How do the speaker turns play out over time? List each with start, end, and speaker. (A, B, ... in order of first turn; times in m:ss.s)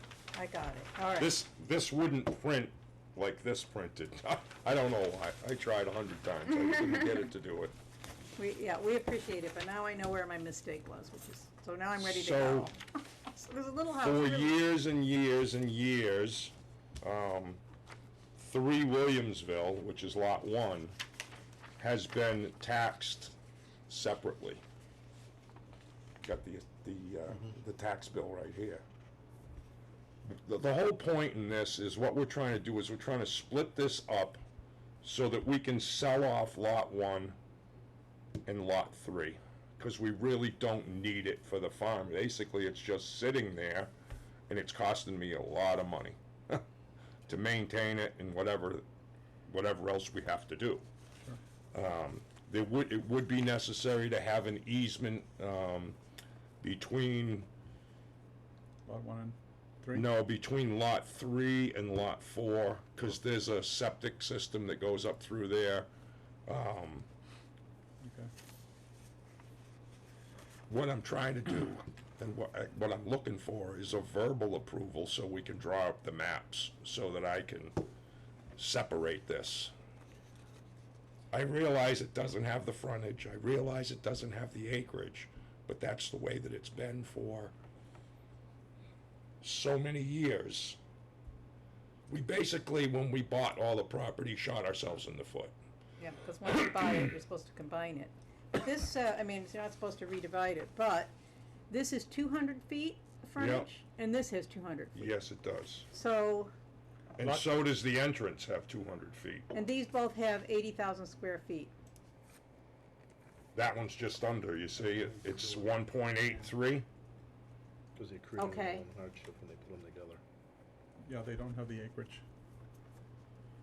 0:00.3-0:01.4 A
0:01.2-0:07.7 B
0:08.4-0:14.6 A
0:12.0-0:12.7 B
0:14.0-0:17.6 B
0:18.4-0:21.0 B
0:21.8-0:23.3 B
0:23.9-0:24.6 B
0:26.2-0:28.8 B
0:30.2-0:34.4 B
0:35.0-0:37.4 B
0:38.4-0:43.9 B
0:44.5-0:46.6 B
0:47.3-0:48.8 B
0:49.4-0:50.8 B
0:51.7-0:56.0 B
0:56.6-0:57.5 B
0:58.8-1:00.1 C
0:59.9-1:05.9 B
1:06.4-1:07.1 B
1:08.0-1:08.3 C
1:10.7-1:17.8 B
1:18.6-1:19.7 B
1:21.3-1:27.5 B
1:29.4-1:30.8 B
1:32.1-1:35.5 B
1:36.0-1:41.1 A
1:41.7-1:45.2 A
1:43.4-1:43.7 B
1:44.9-1:45.9 B
1:45.9-1:46.5 A
1:47.2-1:49.5 B
1:47.2-1:47.5 C
1:49.5-1:51.7 A
1:53.5-1:56.8 B
1:54.9-1:55.8 D
1:57.9-2:00.2 D
1:58.4-1:58.8 A
2:01.0-2:02.2 C